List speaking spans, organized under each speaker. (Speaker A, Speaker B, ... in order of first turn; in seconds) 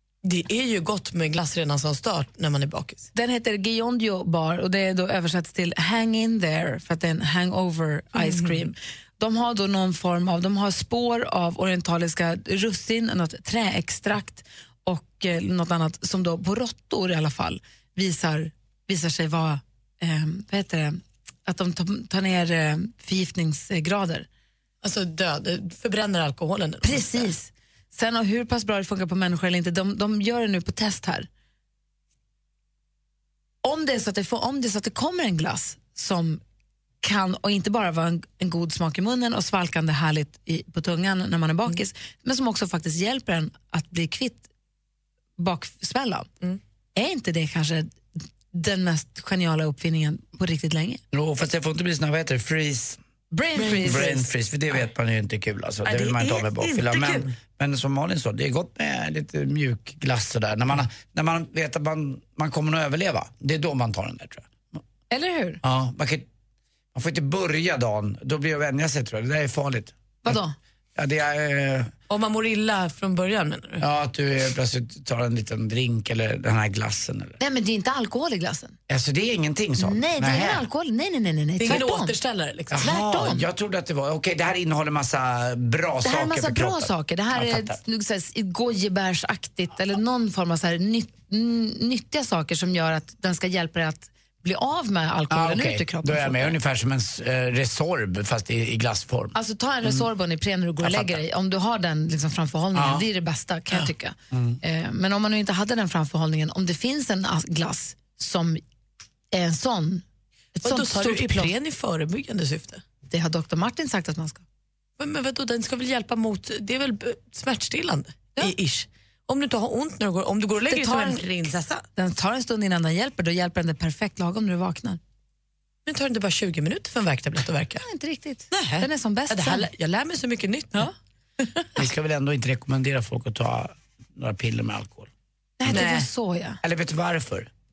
Speaker A: 0.2-3.1, 8.2-8.7, 24.8-27.3, 53.6-54.1, 55.8-57.3, 72.1-73.8, 81.6-83.2, 110.6-112.8, 115.0-121.8, 125.8-127.8, 128.5-130.9, 135.7-136.1
Speaker B: 3.1-24.3, 26.8-31.3, 33.6-36.4, 37.0-44.5, 45.4-46.3, 47.0-48.0, 48.5-51.0, 53.3-54.2, 65.1-65.6, 70.2-70.5, 77.4-78.8, 79.8-82.1, 82.8-83.4, 86.0-96.5, 99.3-108.6, 109.3-110.0, 110.6-111.5, 113.1-114.4, 120.7-121.2, 122.0-125.0, 127.8-129.7, 135.6-136.6
Speaker C: 51.1-53.0, 53.7-64.5, 65.6-66.2, 66.9-70.4, 71.0-71.9, 73.8-77.4, 78.9-80.7, 82.7-87.8, 95.3-100.1, 100.8-101.2, 102.7-103.0, 103.7-104.6, 131.8-135.1, 136.6-137.5